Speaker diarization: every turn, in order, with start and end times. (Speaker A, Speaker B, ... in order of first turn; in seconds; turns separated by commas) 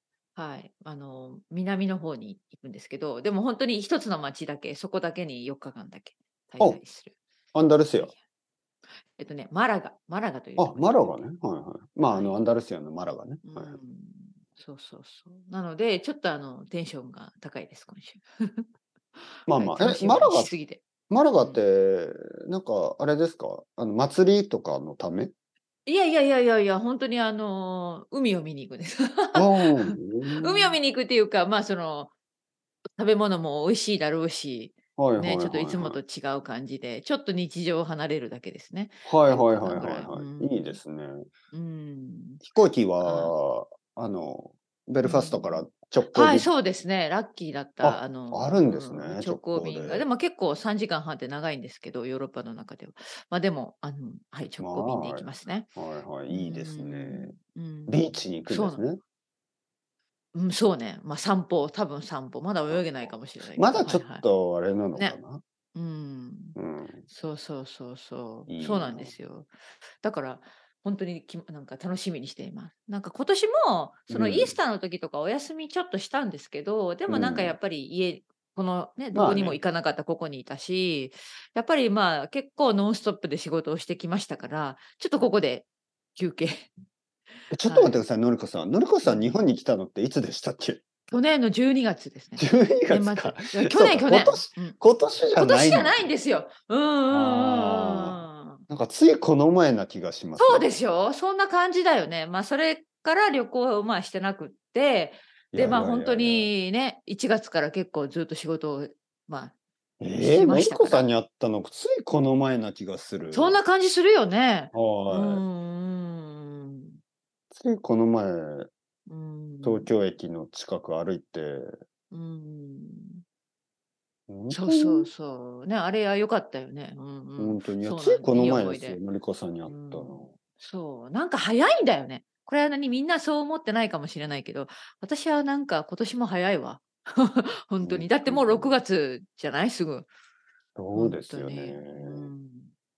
Speaker A: 0.3-7.1, Speaker B: 7.5-8.1, Speaker A: 9.1-11.2, Speaker B: 10.6-13.8, Speaker A: 12.1-12.4, Speaker A: 13.4-18.6, Speaker A: 19.4-20.8, Speaker B: 19.5-20.5, Speaker B: 21.1-25.3, Speaker A: 25.9-32.1, Speaker B: 29.3-30.8, Speaker A: 33.0-40.8, Speaker B: 35.0-36.0, Speaker B: 39.0-41.3, Speaker A: 41.5-42.4, Speaker B: 42.4-46.5, Speaker A: 43.0-43.3, Speaker A: 45.0-55.7, Speaker B: 47.8-50.0, Speaker B: 54.6-57.3, Speaker A: 56.3-58.9, Speaker B: 57.9-59.0, Speaker A: 60.3-64.2, Speaker B: 63.5-65.4, Speaker A: 65.7-66.5, Speaker B: 66.5-67.0, Speaker A: 67.1-86.7, Speaker B: 68.5-69.1, Speaker B: 74.1-74.5, Speaker B: 77.1-77.5, Speaker B: 79.1-79.6, Speaker B: 87.5-90.8, Speaker A: 87.7-88.0, Speaker A: 89.0-89.3, Speaker A: 91.1-94.8, Speaker B: 92.4-96.1, Speaker A: 95.4-98.6, Speaker B: 97.1-100.7, Speaker A: 100.4-109.5, Speaker B: 105.5-106.5, Speaker B: 110.0-113.6, Speaker A: 110.2-111.1, Speaker A: 113.3-116.9, Speaker B: 114.7-115.4, Speaker B: 117.5-118.7, Speaker A: 119.1-119.9, Speaker B: 119.6-121.8, Speaker A: 122.1-123.2, Speaker B: 124.3-125.1, Speaker A: 124.5-129.0, Speaker B: 127.4-130.3, Speaker A: 129.7-140.1, Speaker B: 137.8-138.8, Speaker B: 140.8-142.3, Speaker A: 140.9-142.7